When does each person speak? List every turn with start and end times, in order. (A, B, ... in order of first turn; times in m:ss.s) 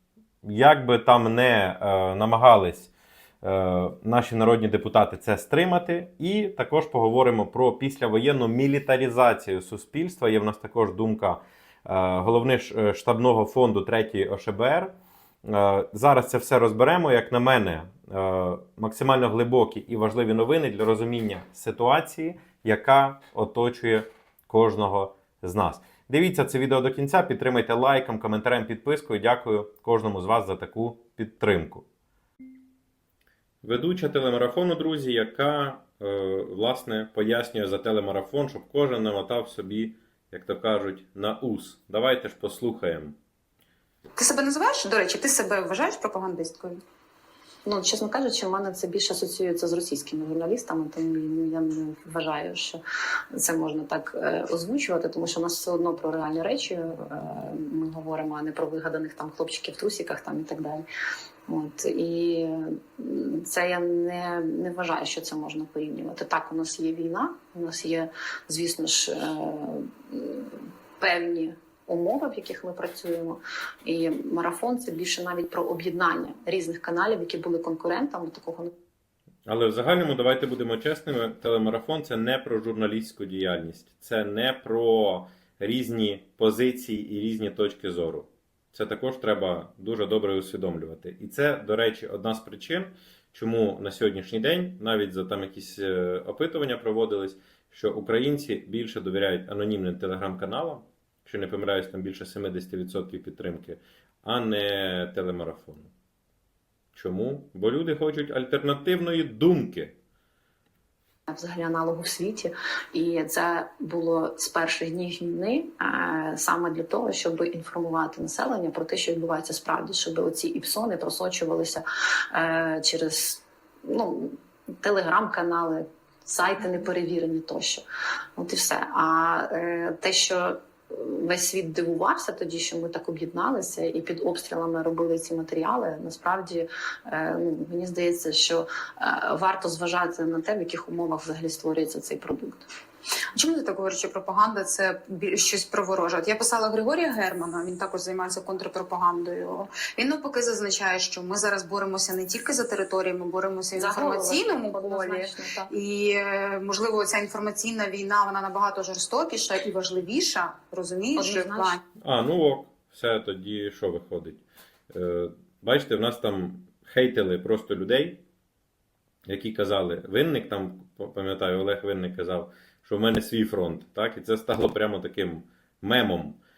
0:00.4-0:02.9 A
0:03.4-0:14.9 A
0:15.4-0:31.9 A
0:33.6-0:43.2 A
0:44.2-0:46.8 B
0:47.6-0:52.8 C
0:53.3-1:00.8 C
1:01.5-1:18.7 C
1:19.5-1:45.9 A
1:46.9-1:50.0 A
1:51.3-2:07.8 C
2:08.4-2:22.7 C
2:23.4-2:41.8 B
2:33.8-2:35.7 C
2:41.2-2:41.8 C
2:42.0-2:48.2 A
2:49.3-2:56.4 A